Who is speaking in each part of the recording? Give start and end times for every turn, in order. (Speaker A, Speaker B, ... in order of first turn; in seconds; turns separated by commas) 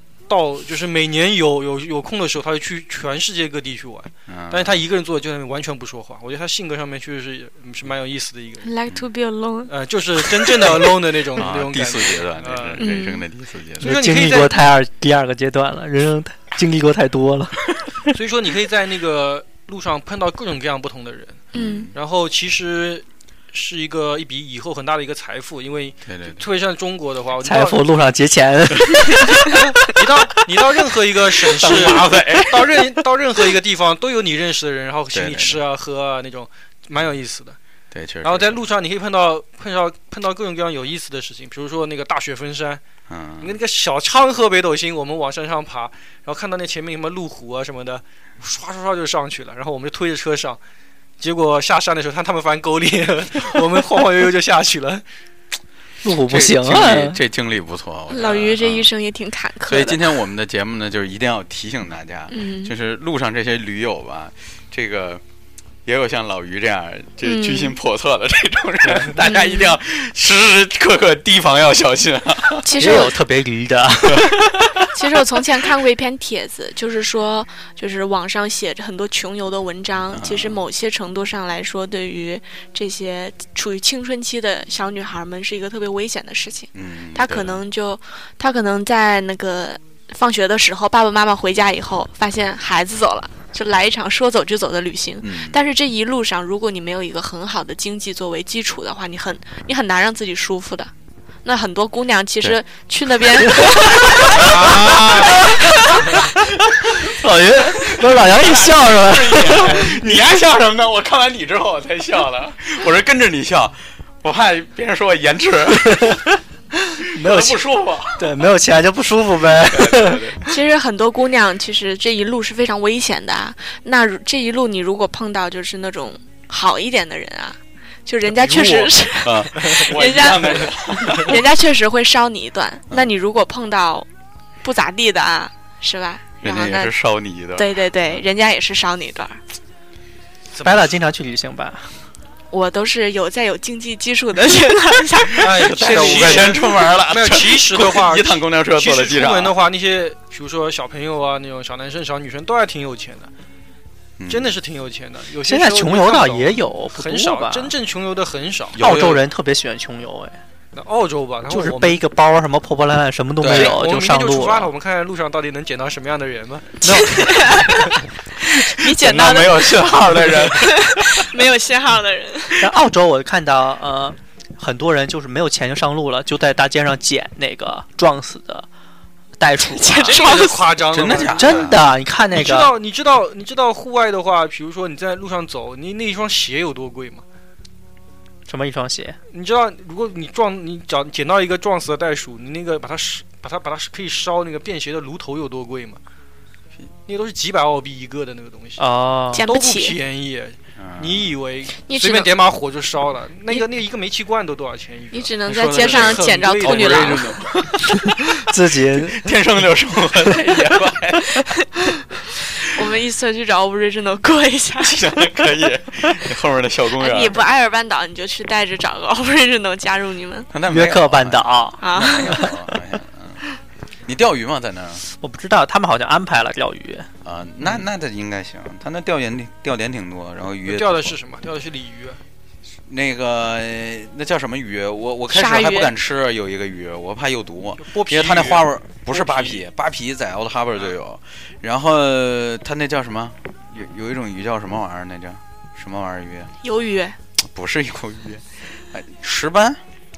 Speaker A: 0.3-8.7, Speaker B: 4.3-4.8, Speaker C: 8.6-9.7, Speaker A: 9.7-12.9, Speaker B: 10.7-13.9, Speaker C: 12.8-13.3, Speaker A: 13.8-14.6, Speaker D: 13.8-17.6, Speaker A: 18.1-27.8, Speaker B: 21.5-21.9, Speaker C: 21.5-21.9, Speaker B: 26.1-26.4, Speaker D: 27.4-29.4, Speaker A: 29.5-37.6, Speaker B: 31.6-32.4, Speaker D: 31.8-32.5, Speaker B: 35.1-35.6, Speaker B: 37.9-38.6, Speaker A: 38.2-42.8, Speaker B: 43.1-43.6, Speaker A: 43.4-50.6, Speaker A: 51.2-55.0, Speaker D: 56.0-57.2, Speaker B: 56.3-58.9, Speaker C: 58.1-60.2, Speaker B: 59.7-65.2, Speaker C: 62.3-62.7, Speaker B: 65.9-72.7, Speaker C: 67.2-67.8, Speaker C: 69.2-69.8, Speaker C: 72.6-73.2, Speaker D: 72.8-74.4, Speaker B: 74.1-74.9, Speaker C: 74.9-100.9, Speaker B: 80.1-80.6, Speaker B: 86.8-87.6, Speaker B: 95.2-95.6, Speaker C: 101.4-104.7, Speaker D: 103.5-105.5, Speaker B: 104.1-105.5, Speaker C: 105.4-106.1, Speaker B: 106.8-116.1, Speaker D: 107.0-110.1, Speaker D: 115.9-116.2, Speaker D: 117.0-117.6, Speaker B: 117.2-118.3, Speaker D: 118.2-120.2, Speaker B: 119.6-120.4, Speaker C: 120.5-134.1, Speaker A: 128.4-128.9, Speaker B: 129.2-131.4, Speaker C: 134.6-137.0, Speaker B: 136.4-138.2, Speaker C: 137.6-139.4, Speaker A: 140.5-140.9, Speaker D: 140.6-141.9, Speaker C: 142.5-146.4, Speaker A: 145.4-153.3, Speaker B: 145.4-149.6, Speaker B: 154.2-154.6, Speaker A: 154.3-158.8, Speaker D: 155.4-157.7, Speaker B: 158.7-159.3, Speaker D: 158.8-160.4, Speaker A: 160.7-162.0, Speaker D: 161.5-164.7, Speaker B: 163.4-163.8, Speaker A: 163.5-167.0, Speaker C: 166.8-172.7, Speaker B: 168.8-171.2, Speaker D: 172.6-178.7, Speaker D: 179.4-180.2, Speaker C: 179.7-180.8, Speaker A: 180.0-181.8, Speaker B: 180.9-181.8, Speaker D: 181.4-182.7, Speaker A: 182.3-187.2, Speaker D: 188.5-189.2, Speaker A: 189.3-196.0, Speaker A: 197.1-207.3, Speaker D: 198.8-199.4, Speaker C: 199.3-200.0, Speaker B: 200.8-201.3, Speaker C: 201.8-202.3, Speaker C: 205.1-207.4, Speaker B: 205.8-208.2, Speaker D: 208.4-209.3, Speaker B: 209.0-211.5, Speaker C: 211.4-212.0, Speaker C: 212.6-215.2, Speaker B: 214.8-217.5, Speaker C: 217.0-220.5, Speaker B: 220.5-223.4, Speaker D: 220.7-222.5, Speaker C: 221.8-222.5, Speaker B: 224.1-225.1, Speaker D: 225.2-227.1, Speaker B: 227.2-231.2, Speaker A: 230.6-232.2, Speaker B: 232.9-246.5, Speaker C: 235.3-235.9, Speaker A: 237.8-239.6, Speaker C: 246.6-247.2, Speaker B: 247.4-249.8